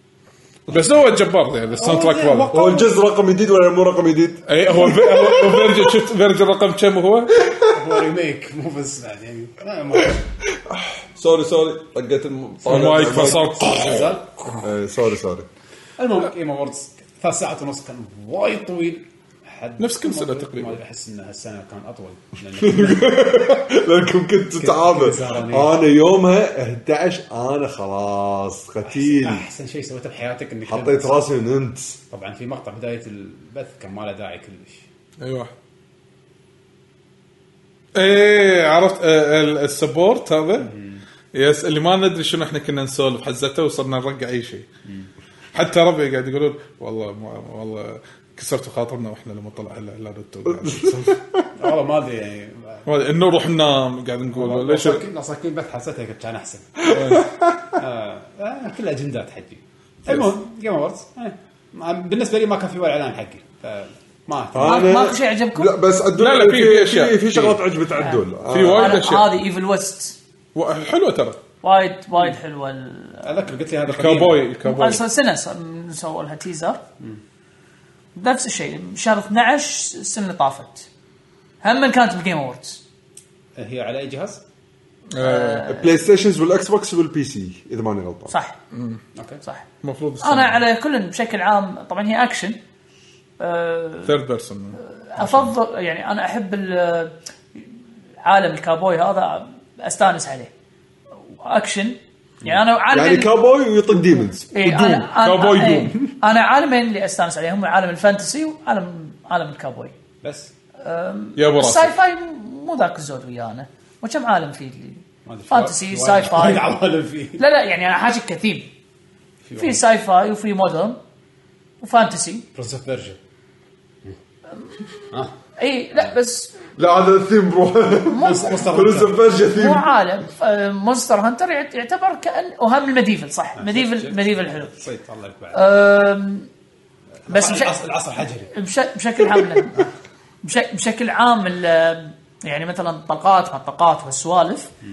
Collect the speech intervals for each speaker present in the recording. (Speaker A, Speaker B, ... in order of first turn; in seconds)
Speaker A: 0.7-2.5, 4.5-7.4, 12.7-14.2, 19.8-20.8, 35.2-35.5, 37.9-40.7, 41.3-44.7, 45.5-51.2, 52.9-55.0, 56.9-57.2, 66.2-67.6, 68.5-69.3, 70.5-71.4, 73.8-75.0, 85.1-85.7, 88.7-89.0, 89.8-90.6, 94.0-94.8, 105.1-106.1, 111.3-112.0
Speaker B: 1.7-2.9, 7.7-10.2, 12.7-14.5, 16.0-23.1, 24.6-25.8, 28.8-31.1, 32.1-34.8, 40.6-41.0, 51.6-52.8, 54.3-57.0, 57.8-65.0, 73.2-74.4, 83.5-84.4, 89.1-89.4, 110.2-110.5, 115.2-117.4, 119.4-119.8, 122.5-123.2, 128.2-129.2, 133.6-135.6, 137.2-138.5
Speaker C: 2.5-6.0, 10.7-15.5, 22.6-29.4, 30.6-32.0, 50.5-51.5, 56.8-57.7, 64.5-69.0, 85.7-88.3, 102.9-105.1, 126.8-129.9
Speaker D: 64.6-65.7, 68.0-70.2, 71.6-73.3, 74.6-76.8, 78.1-80.9, 81.6-82.8, 85.2-85.9, 88.3-88.5, 90.2-92.6, 93.4-94.1, 94.8-97.7, 98.2-100.5, 101.3-103.3, 104.5-109.9, 110.8-116.7, 117.4-118.7, 119.6-121.0, 121.8-122.5, 125.6-126.5, 128.1-128.7, 129.5-134.7, 135.5-136.5, 137.3-137.7, 138.5-139.9, 140.4-144.7